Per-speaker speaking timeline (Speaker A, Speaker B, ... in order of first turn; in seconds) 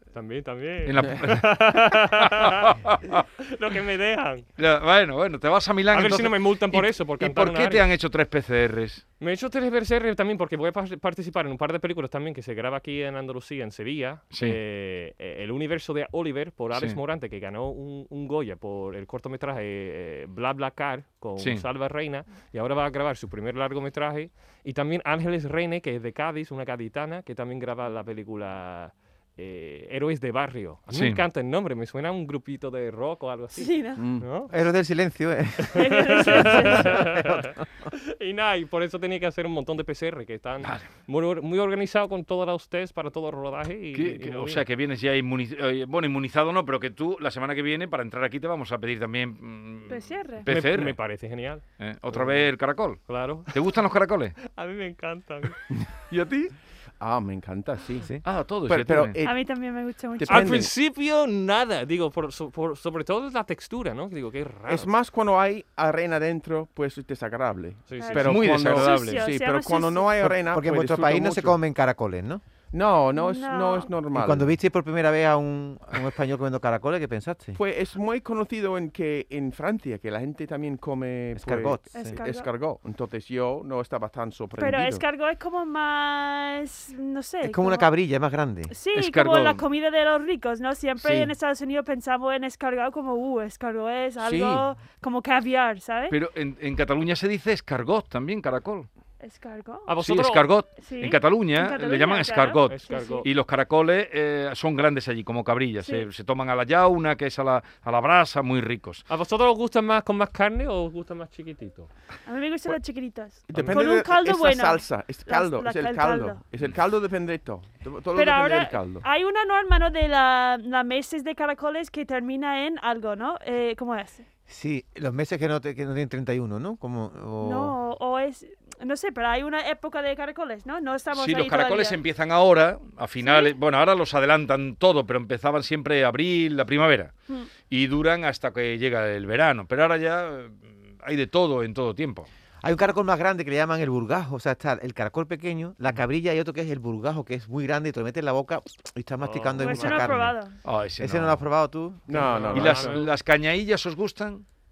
Speaker A: 0.1-2.8, 3.4-4.5, 5.9-7.9, 9.2-34.5, 35.7-44.6, 50.5-52.5, 53.0-53.5, 54.4-55.5, 60.3-64.9, 67.9-68.3, 99.9-100.5, 102.7-103.3, 109.1-111.9, 113.5-113.8, 149.2-150.2, 152.1-153.1
Speaker B: 0.8-3.2, 4.6-9.0, 14.3-14.6, 16.7-17.0, 21.4-21.6, 30.9-31.2, 40.6-40.9, 43.9-51.0, 51.8-54.4, 56.1-56.5, 58.2-59.2, 68.2-69.2, 88.9-89.6, 96.1-98.9, 100.0-109.0, 131.1-137.1, 137.7-142.3, 150.6-151.4, 152.5-154.4
Speaker C: 33.5-34.0, 35.7-37.1, 49.9-50.5, 59.2-60.6, 68.0-70.1, 73.1-73.9, 81.9-82.5, 84.5-87.9, 88.7-96.1, 99.2-99.9, 100.8-103.2, 105.8-106.0, 112.2-116.4, 118.1-124.2, 127.4-132.0, 133.2-133.5, 149.6-150.6
Speaker D: 34.0-34.2, 57.0-58.1, 58.7-59.5, 60.2-60.7, 64.7-71.6, 72.7-74.5, 77.5-85.0, 94.2-94.6, 113.5-119.0, 152.1-152.9
Speaker E: 34.5-37.6, 70.2-72.4, 74.1-77.6, 81.3-82.2, 87.4-88.7, 124.5-127.8, 142.6-150.3, 151.0-152.3